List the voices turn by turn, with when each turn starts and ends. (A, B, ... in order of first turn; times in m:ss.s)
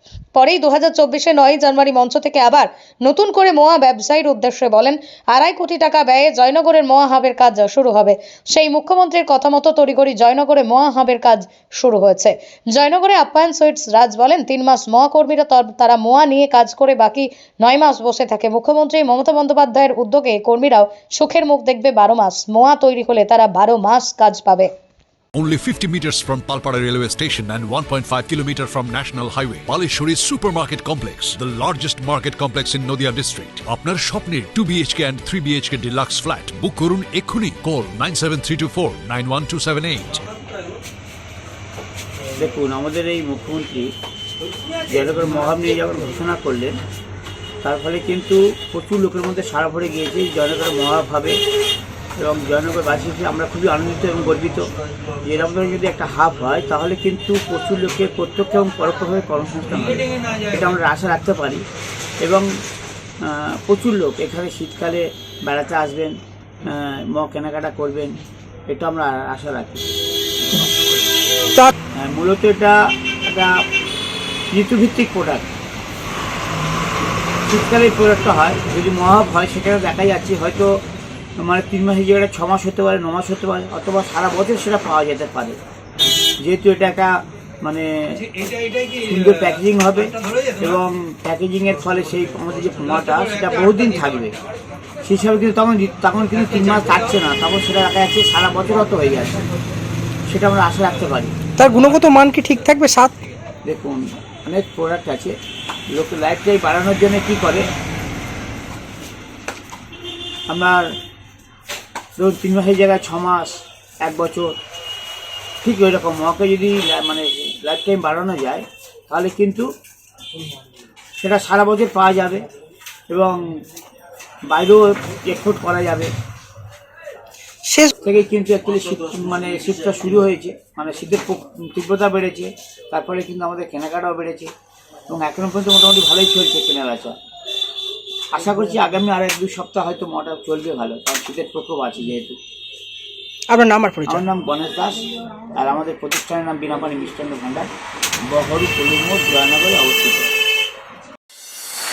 0:00.4-0:24.7 A
0:25.4-0:40.2 B
0:42.4-0:43.9 C
0:44.9-0:46.8 C
0:47.6-0:51.4 C
0:52.2-0:54.7 C
0:55.2-1:01.6 C
1:02.2-1:02.5 C
1:03.2-1:08.2 C
1:08.7-1:09.9 C
1:12.0-1:13.5 C
1:14.5-1:15.5 C
1:17.5-1:20.7 C
1:21.4-1:25.6 C
1:26.4-1:34.4 C
1:35.0-1:39.4 C
1:40.3-1:41.3 C
1:41.6-1:43.1 D
1:43.7-1:45.4 C
1:45.9-1:47.7 C
1:50.5-1:50.8 C
1:52.2-1:54.5 C
1:55.6-1:59.7 C
2:01.2-2:02.4 C
2:03.1-2:03.4 C
2:04.5-2:06.1 C
2:08.0-2:14.5 C
2:15.1-2:17.2 C
2:18.3-2:22.4 C
2:23.5-2:24.3 D
2:24.1-2:27.7 C
2:28.3-2:30.3 C